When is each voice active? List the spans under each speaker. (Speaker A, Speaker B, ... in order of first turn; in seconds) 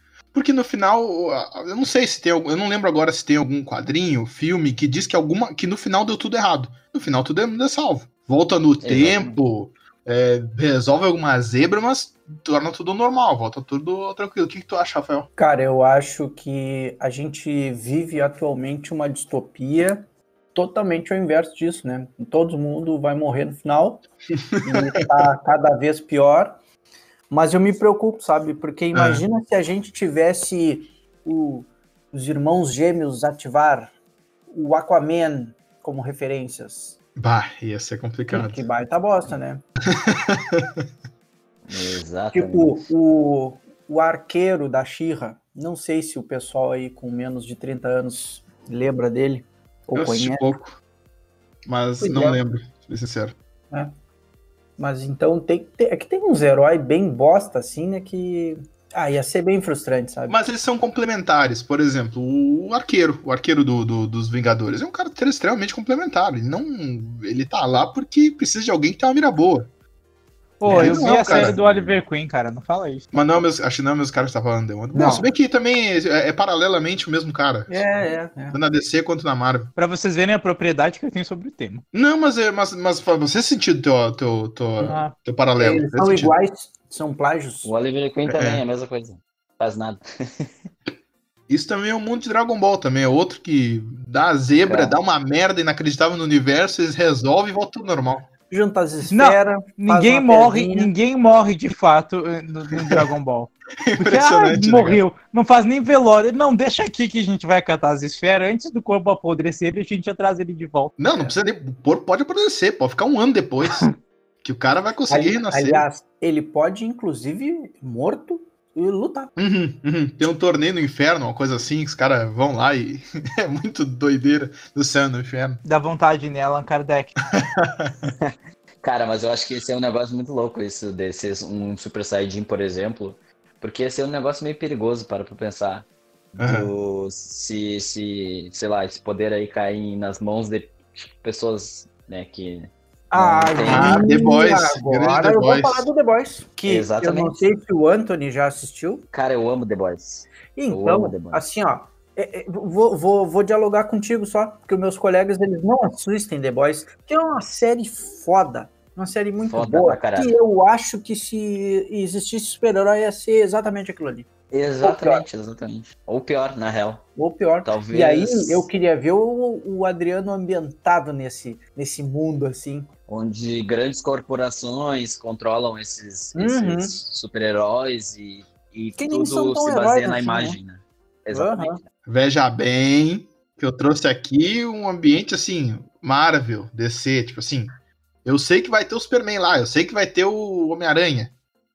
Speaker A: 0.3-15.3, 24.5-24.8, 28.9-29.2, 37.1-38.6, 39.9-40.8, 49.9-50.8, 51.6-53.3, 60.3-69.7, 70.7-71.6, 73.1-77.8, 78.5-79.7, 81.9-86.3, 88.3-88.6, 91.5-98.3, 102.8-103.0, 103.8-105.0, 111.0-113.9, 114.4-115.8, 119.4-125.6, 127.3-128.1, 136.4-136.7, 143.7-145.9, 182.1-187.7, 188.2-191.3
Speaker B: 8.8-9.4, 41.6-42.8, 70.7-72.0, 87.6-90.5, 94.6-95.0, 128.2-144.0, 146.7-147.4, 149.1-151.4, 159.4-160.3, 164.5-167.1, 167.6-168.7, 173.1-181.8
Speaker C: 15.4-24.0, 24.6-26.6, 27.3-33.9, 34.5-37.0, 38.3-39.6, 42.3-50.5, 52.0-52.4, 54.8-60.4, 70.7-71.3, 74.9-75.3, 77.7-78.6, 85.6-87.7, 98.5-100.9, 115.1-119.3, 143.1-149.1, 150.5-164.3, 164.8-165.2, 167.2-172.9, 176.3-177.0, 179.0-180.6, 181.3-181.8
Speaker D: 70.6-73.2, 79.8-81.8, 84.8-85.1, 99.1-110.9, 125.6-127.2